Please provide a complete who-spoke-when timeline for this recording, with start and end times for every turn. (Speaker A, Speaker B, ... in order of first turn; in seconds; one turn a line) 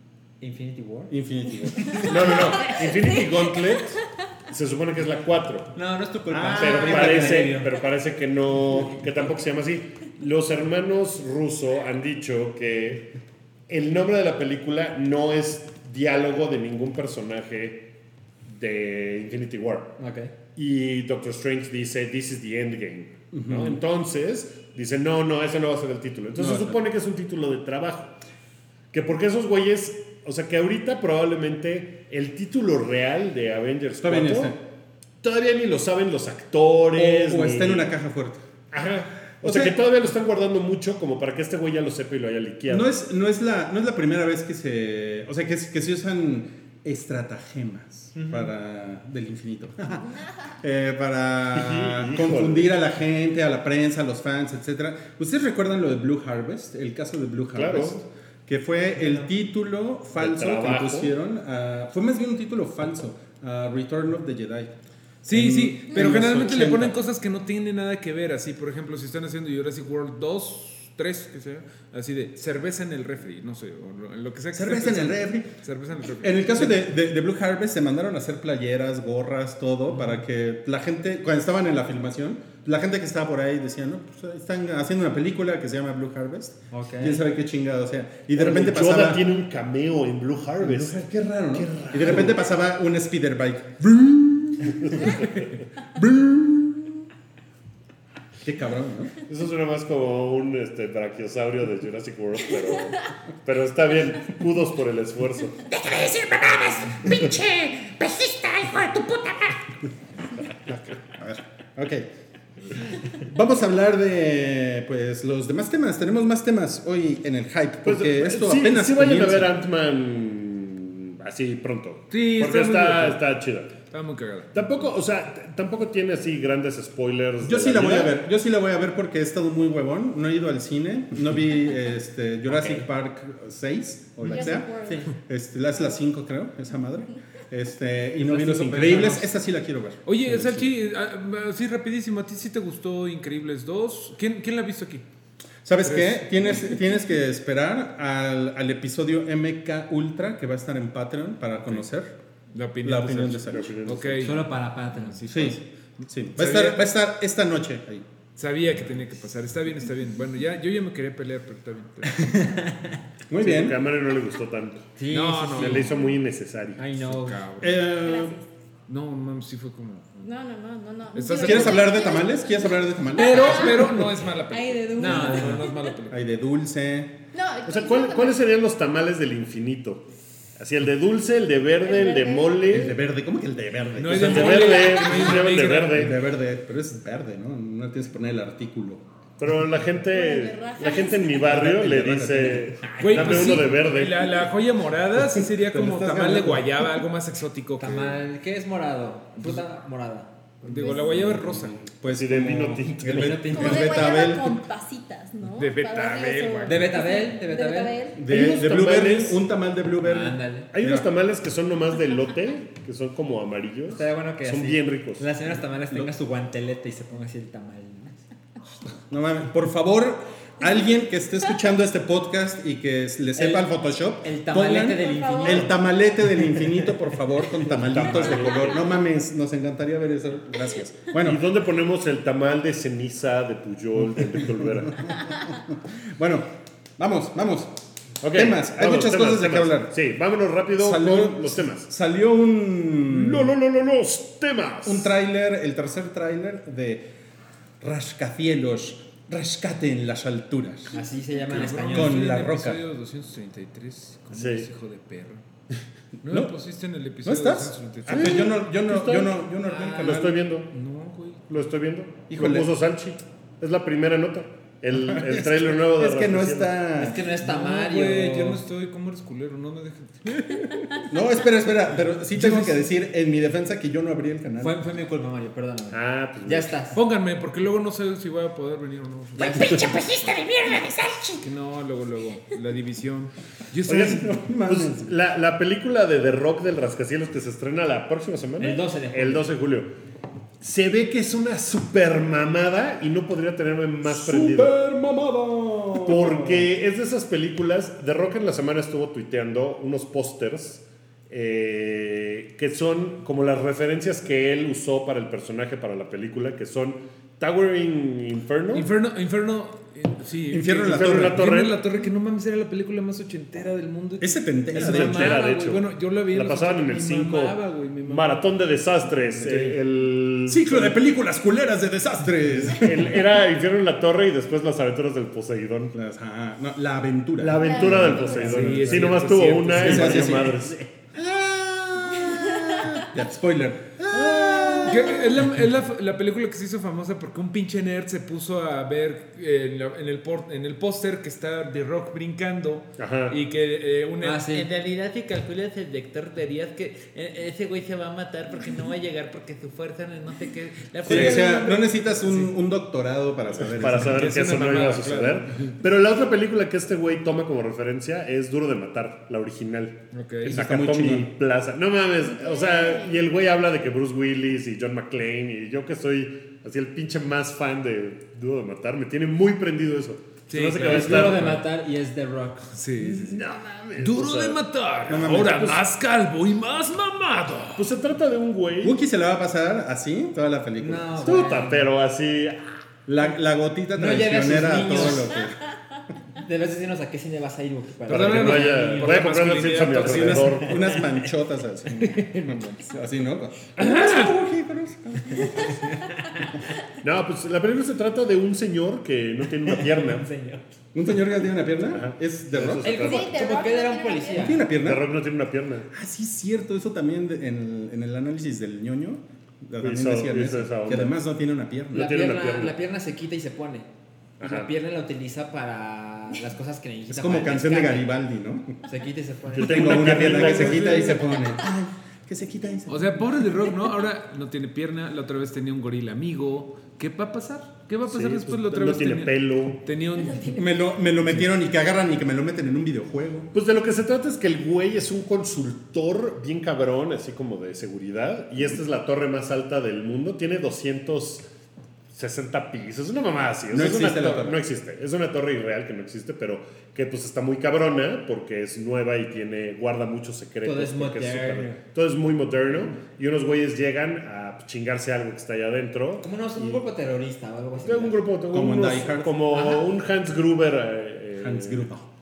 Speaker A: 0.4-1.1
Speaker B: 1.1-2.4
Speaker A: 1.8-2.1
Speaker C: 2.0-5.7
Speaker A: 5.7-7.7
Speaker B: 6.3-7.6
Speaker C: 6.5-13.1
Speaker C: 13.7-17.9
Speaker C: 18.5-19.9
Speaker A: 20.0-20.3
Speaker C: 20.6-28.1
Speaker B: 23.3-23.8
Speaker B: 26.4-26.8
Speaker C: 28.9-34.6
Speaker B: 34.0-34.6
Speaker C: 35.2-37.9
Speaker B: 37.0-38.4
Speaker C: 38.7-42.9
Speaker B: 39.4-39.8
Speaker B: 42.7-64.7
Speaker A: 48.1-48.5
Speaker C: 51.5-52.7
Speaker C: 57.5-58.0
Speaker C: 60.2-61.1
Speaker D: 65.2-76.7
Speaker B: 65.3-67.0
Speaker B: 74.5-75.5
Speaker B: 76.2-89.3
Speaker A: 79.9-80.2
Speaker A: 86.7-87.2
Speaker C: 88.4-91.0
Speaker B: 90.6-95.2
Speaker C: 91.5-92.5
Speaker C: 94.7-95.6
Speaker B: 96.0-97.1
Speaker B: 98.4-99.1
Speaker C: 99.3-105.6
Speaker E: 105.7-109.6
Speaker B: 111.1-112.1
Speaker B: 113.1-119.5
Speaker C: 117.8-123.7
Speaker D: 122.1-123.3
Speaker D: 123.9-124.6
Speaker C: 124.5-128.2
Speaker B: 127.4-140.7
Speaker A: 132.5-132.9
Speaker F: 134.2-135.1
Speaker A: 134.7-135.1
Speaker A: 138.2-139.3
Speaker D: 140.1-145.0
Speaker B: 145.7-152.1
Speaker D: 145.8-146.8
Speaker D: 152.5-155.7
Speaker B: 152.8-153.7
Speaker C: 153.5-154.4
Speaker A: 154.2-155.2
Speaker B: 155.3-158.1
Speaker D: 156.3-156.8
Speaker D: 158.4-162.4
Speaker A: 162.1-163.0
Speaker B: 163.3-163.8
Speaker C: 163.4-164.9
Speaker A: 165.0-165.9
Speaker D: 165.1-165.9
Speaker C: 165.6-166.8
Speaker F: 165.9-166.2
Speaker A: 166.8-167.4
Speaker D: 167.0-167.8
Speaker B: 167.6-168.4
Speaker F: 167.9-168.5
Speaker D: 168.9-170.3
Speaker F: 170.2-175.9
Speaker D: 171.2-172.0
Speaker B: 171.4-174.1
Speaker D: 173.2-176.2
Speaker A: 175.0-175.7
Speaker B: 176.1-177.2
Speaker F: 177.3-178.4
Speaker C: 177.7-180.1
Speaker C: 180.6-183.0
Speaker F: 181.8-182.6
Speaker B: 182.7-184.8
Speaker D: 184.0-186.2
Speaker C: 184.1-186.2
Speaker B: 185.9-189.0
Speaker C: 189.4-194.4
Speaker F: 190.1-191.5
Speaker B: 191.3-192.8
Speaker A: 193.0-193.6
Speaker D: 193.0-198.2
Speaker B: 195.2-197.0
Speaker A: 197.8-200.3
Speaker D: 200.6-201.8
Speaker F: 200.8-201.2
Speaker B: 201.8-204.6
Speaker C: 202.1-203.6
Speaker A: 203.1-204.1
Speaker F: 203.5-208.2
Speaker D: 205.6-207.0
Speaker A: 206.7-208.0
Speaker B: 208.1-211.1
Speaker C: 208.3-209.4
Speaker A: 210.0-210.7
Speaker C: 210.7-215.2
Speaker A: 213.9-218.2
Speaker B: 219.1-231.4
Speaker A: 223.4-223.7
Speaker A: 224.2-226.9
Speaker F: 225.0-225.8
Speaker C: 227.6-228.9
Speaker C: 231.2-235.1
Speaker B: 234.0-237.8
Speaker C: 238.2-241.9
Speaker B: 238.3-239.9
Speaker B: 240.8-243.5
Speaker C: 243.1-245.1
Speaker B: 244.8-247.1
Speaker B: 247.8-251.0
Speaker A: 250.9-252.4
Speaker D: 251.5-255.4
Speaker B: 251.9-252.8
Speaker C: 254.3-254.7
Speaker D: 256.2-258.5
Speaker B: 256.2-256.5
Speaker B: 257.2-260.4
Speaker C: 258.1-259.4
Speaker A: 259.6-260.2
Speaker C: 260.0-260.7
Speaker D: 260.7-261.4
Speaker C: 261.5-266.8
Speaker B: 262.3-262.8
Speaker B: 264.9-267.2
Speaker A: 266.9-268.6
Speaker D: 267.4-271.1
Speaker B: 271.1-274.8
Speaker D: 272.3-272.8
Speaker A: 274.6-277.0
Speaker C: 275.9-276.7
Speaker D: 276.9-279.9
Speaker A: 279.4-280.0
Speaker E: 279.4-281.4
Speaker D: 281.4-284.3
Speaker C: 283.9-289.9
Speaker B: 283.9-285.1
Speaker A: 288.6-289.5
Speaker C: 290.6-294.7
Speaker B: 294.1-296.7
Speaker C: 296.0-308.9
Speaker D: 308.7-318.6
Speaker B: 310.5-311.5
Speaker C: 310.9-311.8
Speaker B: 314.2-315.4
Speaker C: 314.7-317.6
Speaker C: 318.1-321.0
Speaker D: 319.3-319.8
Speaker B: 320.5-323.2
Speaker C: 322.7-325.9
Speaker B: 325.9-329.1
Speaker C: 327.4-330.8
Speaker F: 327.6-328.6
Speaker D: 328.3-330.5
Speaker B: 329.7-335.5
Speaker F: 332.2-333.0
Speaker C: 334.3-334.9
Speaker D: 334.9-344.8
Speaker C: 343.0-343.4
Speaker A: 344.2-344.7
Speaker G: 344.6-351.7
Speaker D: 351.0-352.5
Speaker B: 351.0-354.4
Speaker C: 351.1-351.5
Speaker C: 353.7-371.6
Speaker D: 353.9-355.8
Speaker D: 360.1-360.6
Speaker B: 360.4-361.3
Speaker F: 362.3-363.2
Speaker D: 370.5-371.6
Speaker A: 370.8-372.7
Speaker D: 372.7-373.5
Speaker C: 373.0-375.8
Speaker D: 374.0-377.9
Speaker B: 375.1-375.8
Speaker C: 377.8-379.0
Speaker B: 378.8-381.5
Speaker A: 380.8-381.9
Speaker C: 381.2-382.6
Speaker B: 383.1-385.6
Speaker A: 383.9-385.4
Speaker A: 386.4-389.2
Speaker D: 388.1-390.6
Speaker C: 388.2-391.0
Speaker B: 390.0-395.8
Speaker D: 392.0-392.9
Speaker D: 393.8-394.3
Speaker A: 395.6-396.5
Speaker C: 397.0-400.3
Speaker A: 399.7-400.6
Speaker B: 400.9-403.1
Speaker C: 401.9-403.4
Speaker A: 402.8-404.7
Speaker F: 402.8-404.6
Speaker B: 404.4-405.1
Speaker C: 404.7-405.9
Speaker B: 405.9-412.1
Speaker C: 409.8-411.2
Speaker C: 411.9-412.8
Speaker A: 411.9-413.9
Speaker C: 414.4-414.7
Speaker A: 414.4-418.1
Speaker B: 417.1-418.8
Speaker A: 418.9-420.9
Speaker C: 419.5-421.4
Speaker B: 419.6-423.3
Speaker D: 422.9-430.6
Speaker C: 428.1-429.8
Speaker B: 430.5-433.5
Speaker C: 433.5-441.5
Speaker C: 442.1-456.8
Speaker B: 443.7-444.6
Speaker A: 450.6-451.8
Speaker A: 456.2-458.2
Speaker C: 457.8-461.9
Speaker B: 458.5-459.5
Speaker A: 459.5-459.9
Speaker B: 461.4-462.1